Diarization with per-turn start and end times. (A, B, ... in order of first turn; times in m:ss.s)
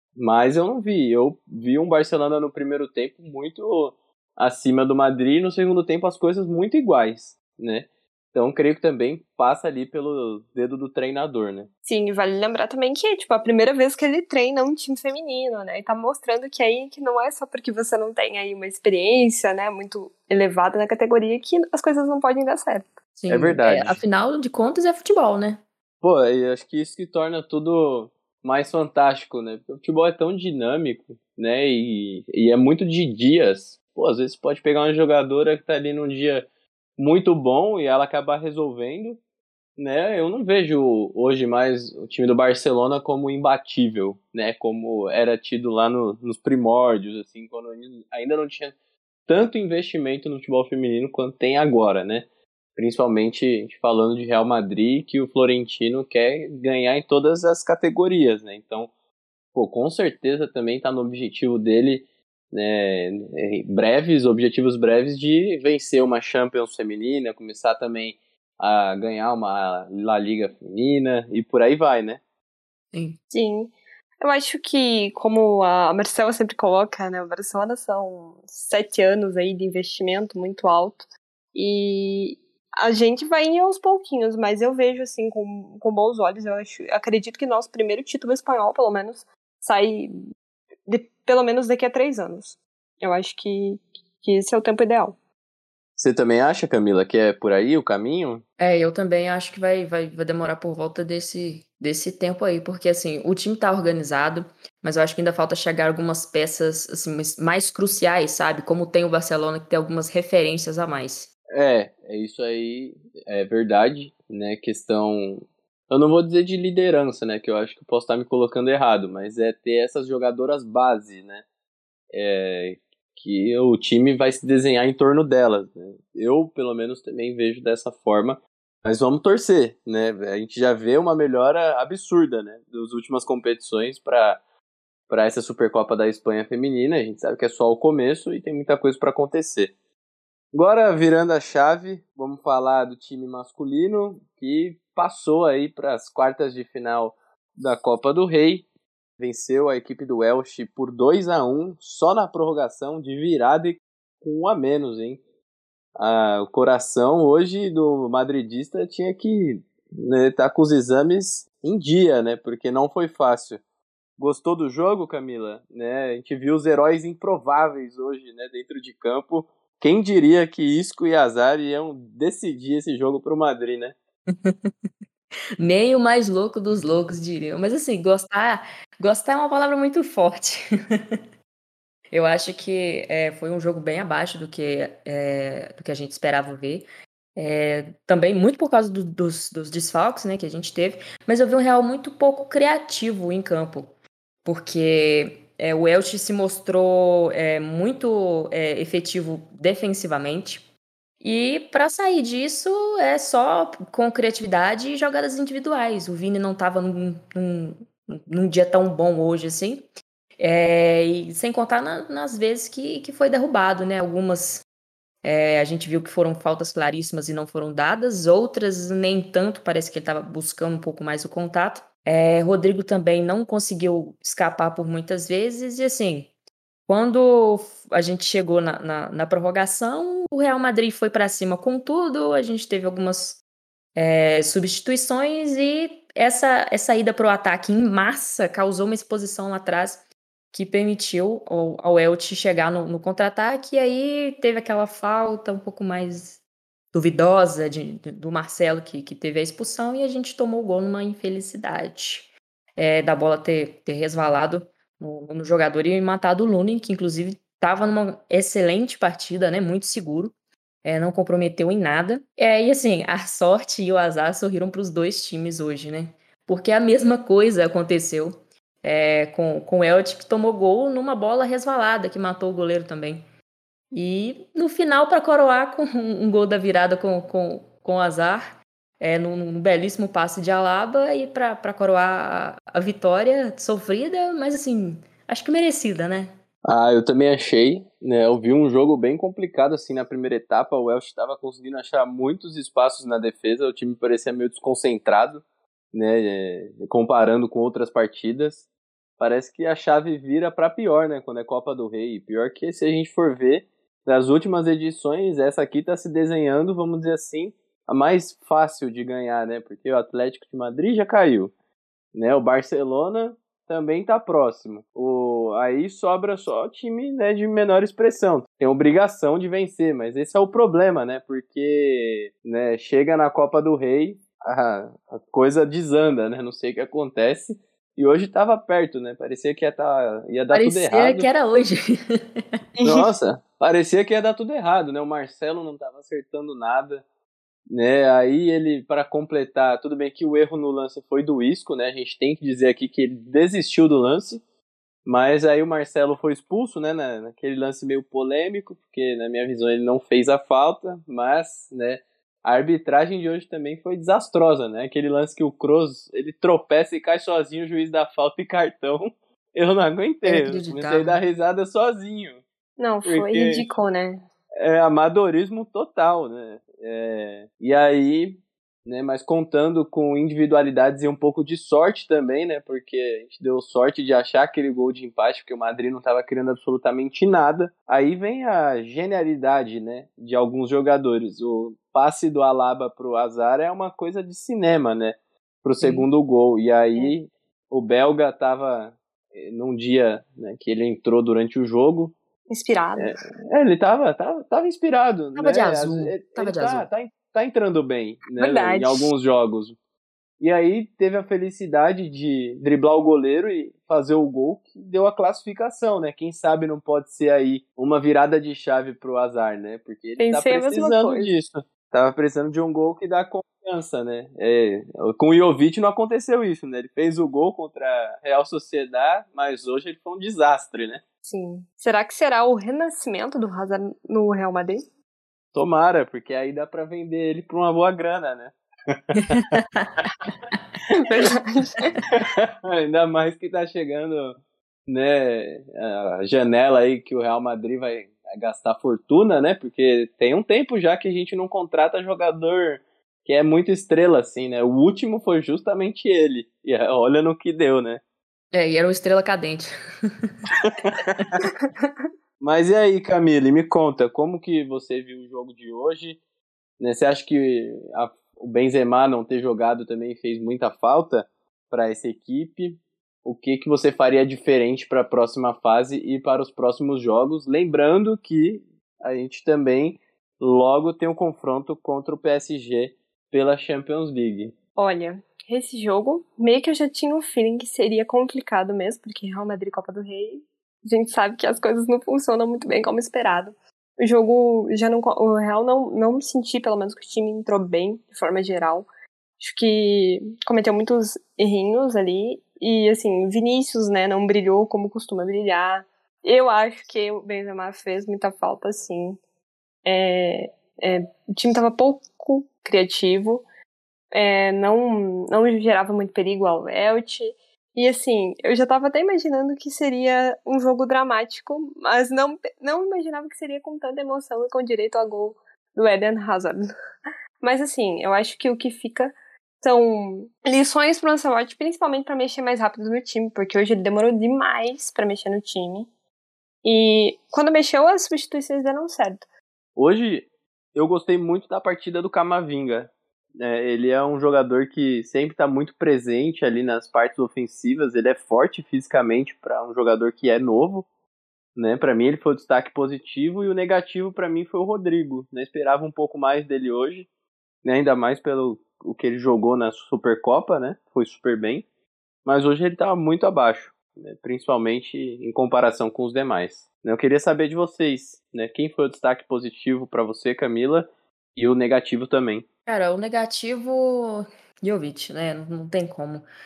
0:00.2-0:11.7 A
0:11.9-0:22.9 B
0:23.2-0:25.6 C
0:23.3-0:24.0 A
0:26.0-0:36.5 A
0:37.0-0:39.2 A
0:39.8-0:48.8 A
0:49.3-0:52.3 A
0:52.8-0:58.9 A
0:59.5-1:12.2 A
1:12.9-1:13.2 C
1:13.3-1:30.2 B
1:30.9-1:35.2 B
1:36.0-1:38.4 A
1:38.6-1:51.3 C
1:51.5-2:01.4 A
2:02.1-2:14.4 A
2:15.1-2:19.7 A
2:20.5-2:28.7 A
2:29.2-2:35.2 A
2:36.0-2:43.6 A
2:44.2-2:54.0 A
2:54.4-2:54.7 C
2:55.6-3:00.7 C
3:02.1-3:13.9 C
3:14.4-3:20.6 C
3:21.2-3:29.9 C
3:30.4-3:34.6 C
3:35.2-3:46.3 C
3:46.9-3:53.4 C
3:54.0-4:06.4 C
4:06.9-4:33.2 C
4:33.9-4:46.3 C
4:46.6-4:58.7 A
4:59.2-5:11.5 A
5:12.1-5:31.3 A
5:30.5-5:32.0 C
5:32.8-5:33.1 B
5:32.8-5:37.0 A
5:37.7-5:44.4 A
5:45.0-6:02.4 A
6:00.2-6:01.2 C
6:02.8-6:04.2 B
6:03.0-6:03.7 A
6:04.6-6:32.2 A
6:32.5-6:33.1 B
6:33.0-6:39.8 A
6:35.4-6:36.9 C
6:38.4-6:39.1 B
6:40.4-7:01.0 A
6:50.2-6:51.3 B
7:01.2-7:04.8 B
7:05.5-7:09.2 A
7:09.3-7:09.9 C
7:10.9-7:12.0 B
7:12.1-7:14.4 A
7:14.9-7:28.0 A
7:28.5-7:29.7 C
7:30.6-7:31.2 A
7:31.6-7:31.9 B
7:32.4-7:36.2 A
7:36.8-7:54.5 A
7:54.8-8:08.9 B
8:09.4-8:19.2 B
8:19.8-8:23.4 B
8:24.1-8:36.7 B
8:37.4-8:45.9 B
8:46.6-8:49.2 B
8:49.8-9:00.9 A
9:01.6-9:07.1 A
9:07.6-9:11.7 A
9:12.2-9:22.5 A
9:22.7-9:26.2 C